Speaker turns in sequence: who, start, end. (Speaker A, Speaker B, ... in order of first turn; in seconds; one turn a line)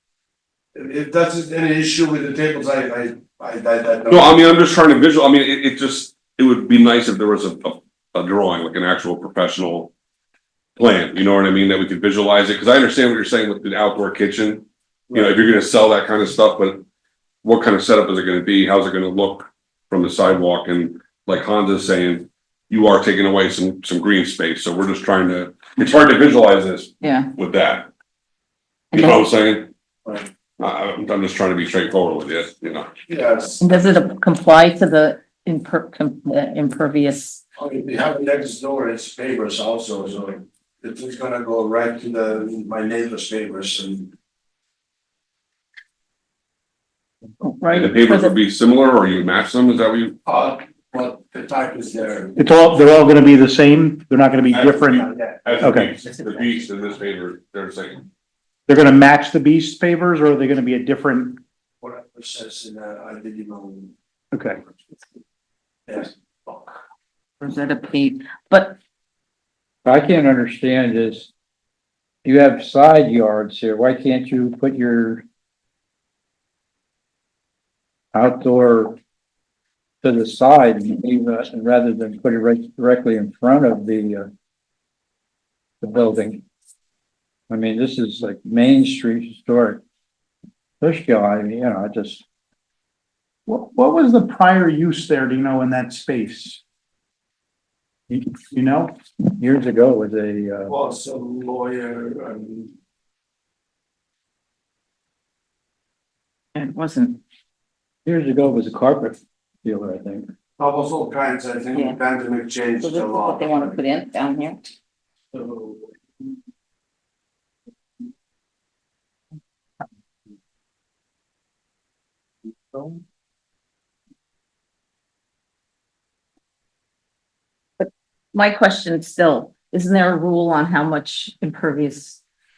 Speaker A: 0.8-4.3
Speaker B: 4.1-9.9
Speaker B: 10.8-16.9
Speaker B: 17.4-27.9
Speaker C: 27.0-27.3
Speaker B: 28.9-29.7
Speaker C: 28.9-29.2
Speaker B: 30.6-32.9
Speaker A: 33.1-33.8
Speaker C: 33.6-37.4
Speaker A: 37.6-44.1
Speaker C: 47.4-48.4
Speaker B: 47.7-50.2
Speaker A: 50.2-52.4
Speaker D: 52.4-55.1
Speaker A: 54.5-55.7
Speaker B: 55.5-58.0
Speaker D: 55.6-56.0
Speaker D: 58.7-61.4
Speaker A: 61.8-63.9
Speaker D: 64.3-64.6
Speaker A: 65.9-66.8
Speaker C: 67.4-68.8
Speaker E: 69.8-71.3
Speaker E: 72.2-75.2
Speaker E: 78.1-79.0
Speaker E: 80.0-84.3
Speaker E: 85.8-86.4
Speaker E: 87.5-89.8
Speaker E: 90.8-92.2
Speaker D: 93.5-96.6
Speaker D: 98.1-99.0
Speaker E: 99.2-100.8
Speaker A: 100.7-102.7
Speaker C: 106.5-107.2
Speaker E: 108.0-110.3
Speaker A: 110.6-113.8
Speaker C: 111.7-112.0
Speaker C: 112.8-114.6
Speaker A: 115.3-115.9
Speaker C: 127.8-132.2